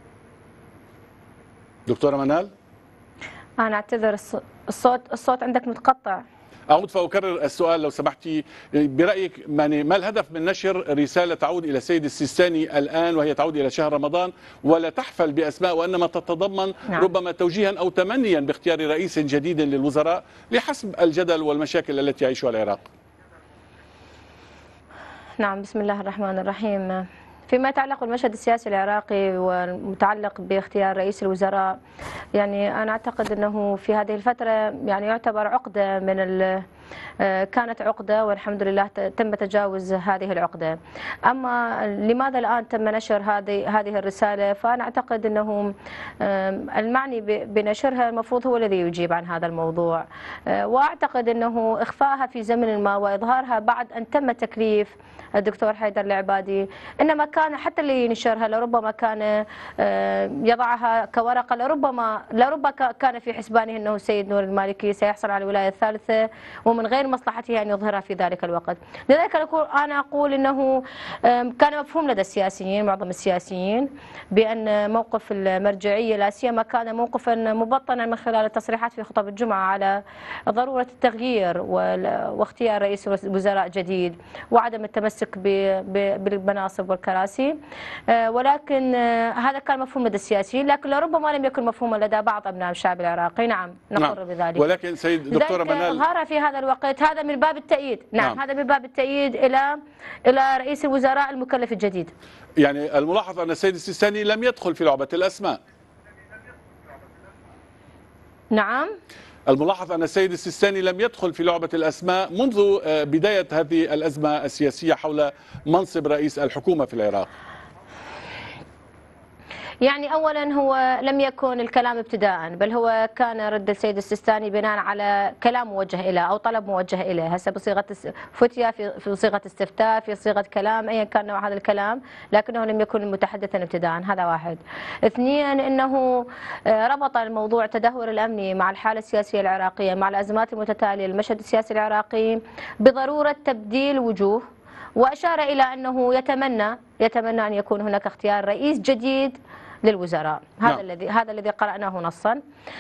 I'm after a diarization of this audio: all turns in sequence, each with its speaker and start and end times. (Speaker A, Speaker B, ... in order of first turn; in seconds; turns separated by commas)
Speaker A: 1.9-2.5, Speaker B: 3.6-6.2, Speaker A: 6.7-22.9, Speaker B: 25.4-31.8, Speaker B: 32.4-36.7, Speaker B: 37.2-80.0, Speaker B: 80.5-87.6, Speaker B: 88.1-94.7, Speaker A: 94.0-96.0, Speaker B: 95.3-102.1, Speaker A: 102.6-105.6, Speaker B: 108.5-108.9, Speaker A: 109.5-117.3, Speaker B: 119.8-144.4, Speaker B: 145.0-152.4